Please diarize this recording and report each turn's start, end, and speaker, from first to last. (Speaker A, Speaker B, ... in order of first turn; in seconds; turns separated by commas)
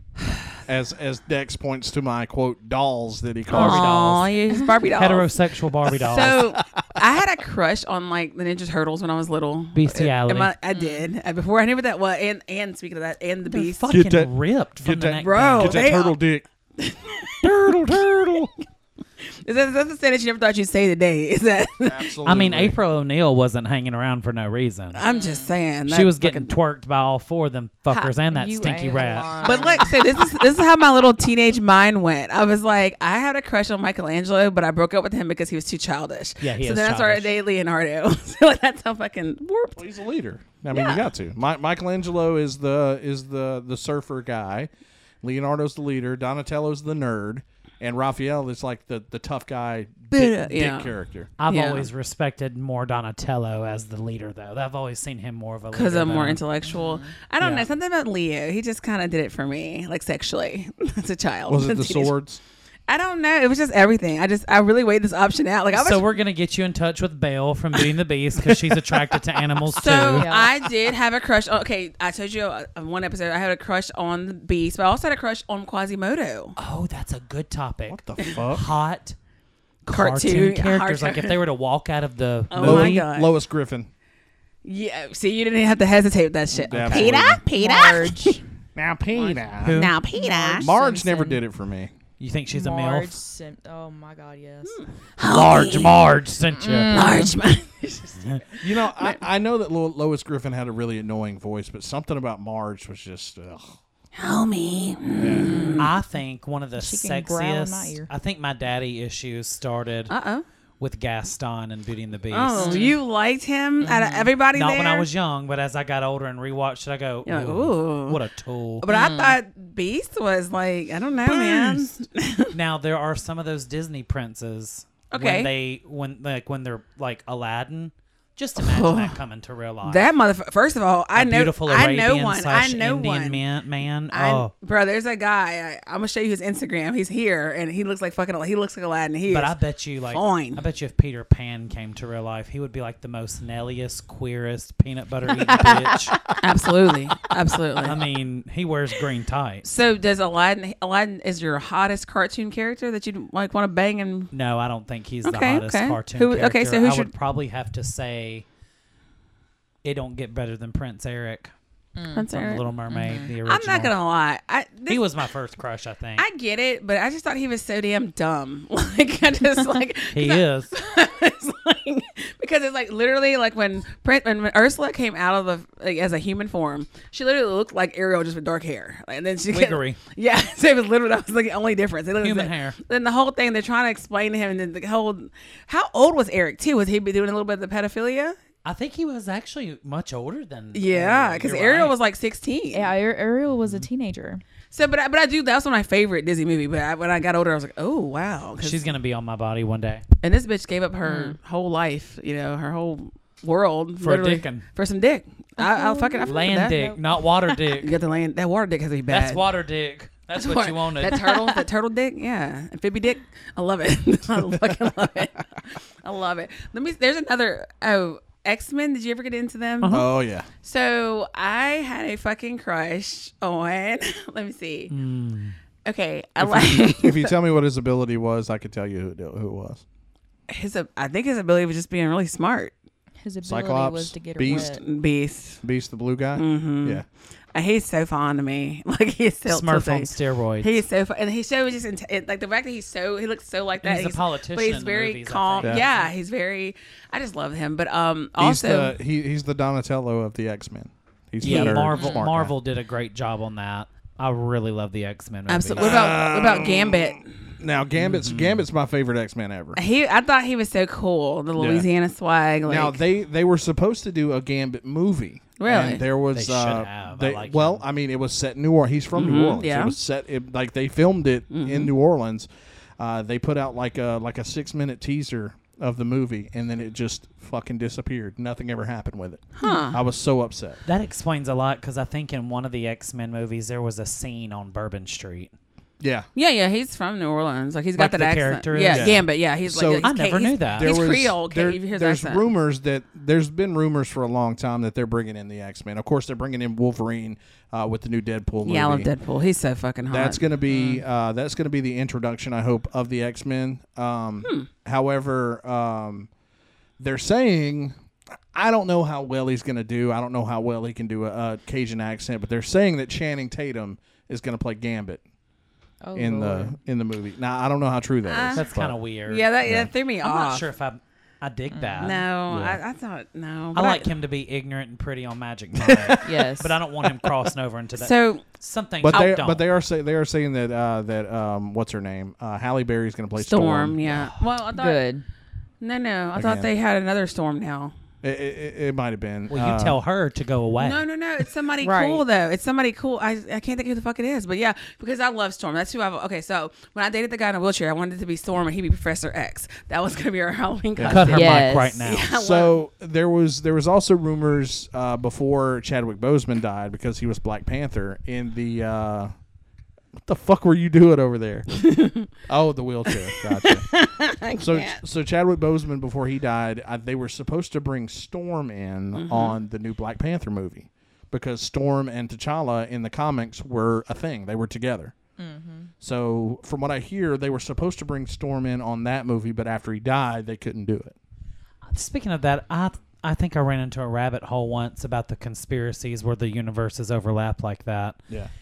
Speaker A: 0.7-4.0, Speaker B: 3.5-14.0, Speaker C: 3.5-4.3, Speaker C: 5.0-6.5, Speaker A: 6.6-7.0, Speaker C: 9.7-10.5, Speaker D: 10.7-11.1, Speaker C: 13.5-15.9, Speaker A: 13.9-16.4, Speaker B: 15.2-16.2, Speaker B: 16.8-17.5, Speaker A: 17.4-18.5, Speaker B: 19.4-22.1, Speaker A: 21.8-22.8, Speaker C: 22.2-25.1, Speaker B: 24.9-26.5, Speaker D: 25.1-25.4, Speaker C: 25.9-29.8, Speaker D: 27.9-30.2, Speaker B: 29.4-39.9, Speaker C: 36.4-37.3, Speaker A: 39.8-44.7, Speaker B: 40.7-41.1, Speaker A: 45.2-51.3, Speaker B: 50.1-50.9, Speaker C: 51.4-56.4, Speaker B: 51.5-51.9, Speaker B: 55.7-62.1, Speaker D: 56.7-57.1, Speaker C: 57.4-57.7, Speaker A: 61.5-62.4, Speaker B: 62.9-66.2, Speaker C: 65.7-70.3, Speaker B: 69.7-76.5, Speaker D: 70.1-70.5, Speaker C: 76.6-79.2, Speaker A: 77.9-78.7, Speaker C: 79.9-83.1, Speaker B: 79.9-81.4, Speaker B: 82.5-83.3, Speaker A: 82.6-83.9, Speaker B: 84.7-88.4, Speaker A: 86.6-87.4, Speaker D: 87.5-88.4, Speaker A: 88.8-89.8, Speaker B: 89.2-90.7, Speaker C: 89.6-90.0, Speaker D: 90.1-91.4, Speaker A: 90.6-91.9, Speaker C: 92.2-93.2, Speaker D: 92.5-94.8, Speaker B: 94.7-96.1, Speaker C: 95.2-97.3, Speaker D: 96.6-97.4, Speaker B: 96.9-99.2, Speaker A: 98.6-103.8, Speaker B: 104.2-106.0, Speaker A: 105.2-105.5, Speaker D: 105.5-105.8, Speaker C: 105.8-110.1, Speaker D: 106.8-108.1, Speaker B: 110.1-110.4, Speaker C: 110.8-112.9, Speaker B: 112.3-115.1, Speaker D: 112.6-112.9, Speaker D: 113.8-114.3, Speaker C: 114.5-118.8, Speaker B: 117.3-118.2, Speaker B: 118.8-122.5, Speaker D: 118.9-119.4, Speaker A: 121.2-122.0, Speaker C: 122.5-130.1, Speaker B: 125.1-125.5, Speaker B: 128.6-129.2, Speaker B: 129.8-133.4, Speaker C: 131.2-134.5, Speaker B: 134.1-139.6, Speaker C: 139.3-146.2, Speaker B: 140.1-140.6, Speaker B: 145.3-148.0, Speaker C: 147.8-149.7, Speaker B: 149.6-154.3, Speaker C: 154.3-158.5, Speaker B: 155.2-157.1, Speaker C: 159.8-161.5, Speaker D: 162.0-162.3, Speaker B: 162.1-162.7, Speaker C: 162.3-163.9, Speaker D: 162.9-163.3, Speaker B: 163.4-165.1, Speaker C: 164.9-166.3, Speaker B: 166.2-188.4, Speaker C: 170.1-170.7, Speaker C: 179.5-180.0, Speaker C: 182.2-182.8, Speaker C: 188.7-191.9, Speaker B: 190.7-192.9, Speaker D: 192.7-194.4, Speaker B: 194.7-198.8, Speaker C: 198.6-200.0, Speaker B: 200.2-209.4, Speaker D: 201.1-201.4, Speaker C: 204.0-204.6, Speaker D: 205.6-206.9, Speaker C: 206.2-207.9, Speaker C: 209.1-211.6, Speaker B: 210.3-220.1, Speaker C: 219.8-220.1, Speaker A: 219.9-220.5, Speaker B: 220.6-224.9, Speaker C: 224.9-225.6, Speaker B: 225.8-227.4, Speaker A: 226.4-229.8, Speaker B: 230.5-232.7, Speaker D: 233.2-234.8, Speaker A: 233.4-234.7, Speaker B: 234.4-235.6, Speaker A: 235.6-237.1, Speaker B: 236.4-249.0, Speaker C: 239.5-240.8, Speaker C: 243.8-246.1, Speaker A: 248.4-252.6, Speaker C: 251.4-256.1, Speaker B: 251.4-252.3, Speaker B: 255.5-257.3, Speaker A: 255.8-259.8, Speaker C: 258.0-258.6, Speaker B: 259.8-263.0, Speaker A: 261.6-261.9, Speaker A: 262.7-280.8, Speaker B: 265.6-266.0, Speaker C: 266.3-267.8, Speaker B: 269.1-270.0, Speaker B: 271.5-271.9, Speaker B: 279.6-280.0, Speaker C: 280.9-285.5, Speaker A: 286.0-286.3, Speaker B: 286.4-292.4, Speaker C: 288.0-289.2, Speaker A: 288.8-299.1, Speaker C: 290.0-290.9, Speaker B: 298.6-301.0, Speaker A: 300.1-306.3, Speaker A: 307.0-307.9, Speaker A: 308.5-315.2, Speaker D: 316.0-316.8, Speaker A: 316.1-319.0, Speaker B: 318.3-318.7, Speaker C: 318.5-319.5, Speaker B: 319.2-320.6, Speaker A: 319.6-319.9, Speaker C: 320.2-322.8, Speaker D: 321.7-322.2, Speaker B: 322.0-324.1, Speaker C: 323.7-329.7, Speaker A: 325.8-326.2, Speaker D: 326.2-326.8, Speaker A: 327.0-327.5, Speaker B: 327.9-328.5, Speaker A: 329.0-334.3, Speaker B: 329.1-329.4, Speaker B: 333.4-335.1, Speaker D: 334.7-335.2, Speaker B: 335.8-337.9, Speaker A: 336.3-336.7, Speaker A: 338.2-340.0, Speaker C: 339.5-341.0, Speaker B: 340.8-352.8, Speaker D: 341.8-342.2, Speaker A: 351.0-351.2, Speaker C: 351.1-352.3, Speaker D: 351.2-352.0, Speaker A: 352.3-359.3, Speaker A: 360.2-363.9, Speaker B: 361.8-362.3, Speaker B: 363.1-365.0, Speaker A: 364.5-375.1, Speaker B: 369.1-369.6, Speaker D: 375.4-375.9, Speaker A: 376.0-381.2, Speaker C: 381.9-388.2